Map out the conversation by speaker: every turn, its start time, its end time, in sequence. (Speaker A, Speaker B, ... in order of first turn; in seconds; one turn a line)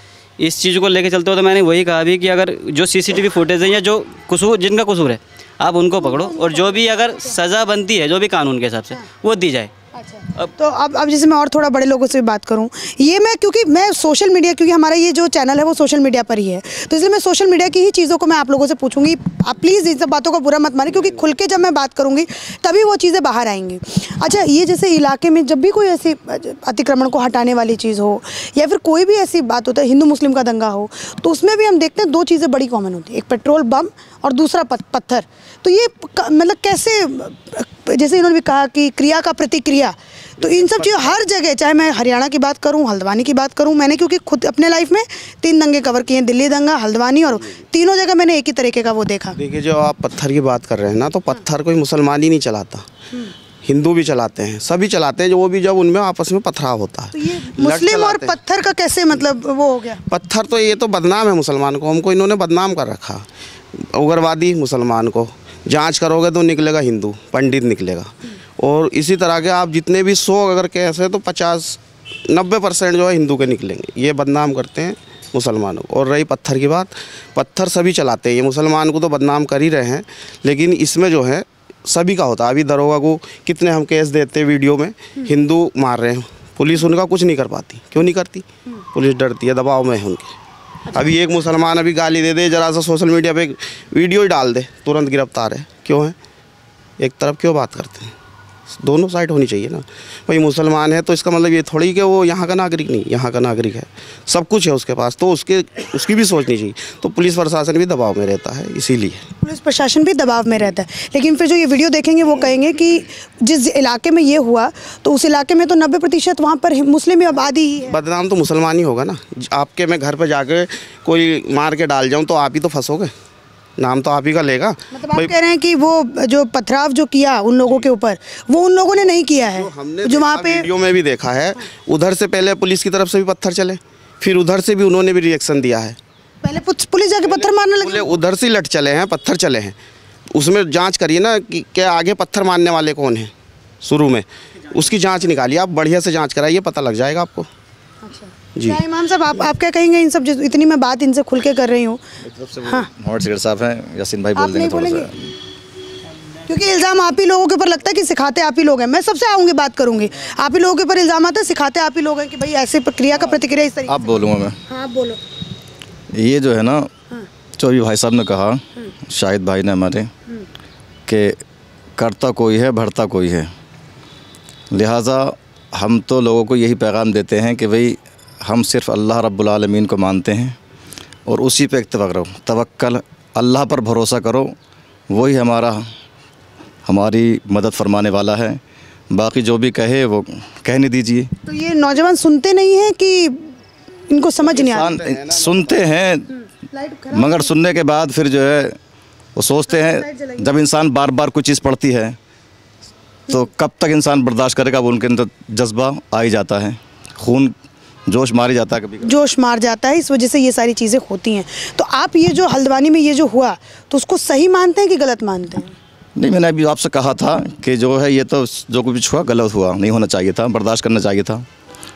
Speaker A: 0.4-9.7
Speaker B: 6.0-7.4
Speaker B: 9.9-49.4
Speaker C: 40.4-41.1
Speaker C: 49.4-52.9
Speaker C: 53.6-58.4
Speaker B: 57.1-60.0
Speaker C: 60.1-90.3
Speaker B: 90.9-91.2
Speaker C: 91.0-96.2
Speaker C: 97.0-98.1
Speaker C: 98.8-109.2
Speaker B: 109.4-118.0
Speaker C: 117.9-123.1
Speaker C: 123.8-125.3
Speaker B: 124.9-130.7
Speaker C: 129.5-136.0
Speaker B: 136.4-138.1
Speaker C: 137.3-139.8
Speaker C: 140.3-147.5
Speaker B: 148.0-152.0
Speaker D: 152.2-155.3
Speaker B: 154.4-155.1
Speaker B: 156.5-165.2
Speaker D: 163.9-164.6
Speaker D: 166.1-166.9
Speaker D: 167.6-170.1
Speaker D: 171.1-171.4
Speaker D: 172.0-173.5
Speaker D: 174.7-180.6
Speaker D: 181.3-184.6
Speaker D: 185.1-185.9
Speaker D: 186.8-188.6
Speaker D: 189.1-191.3
Speaker B: 191.4-193.5
Speaker B: 194.1-195.0
Speaker C: 194.4-195.8
Speaker D: 194.6-196.3
Speaker B: 196.3-197.6
Speaker D: 197.1-198.8
Speaker D: 199.4-202.2
Speaker B: 199.7-200.6
Speaker D: 203.3-207.6
Speaker D: 208.1-209.1
Speaker B: 209.0-215.7
Speaker D: 216.2-221.5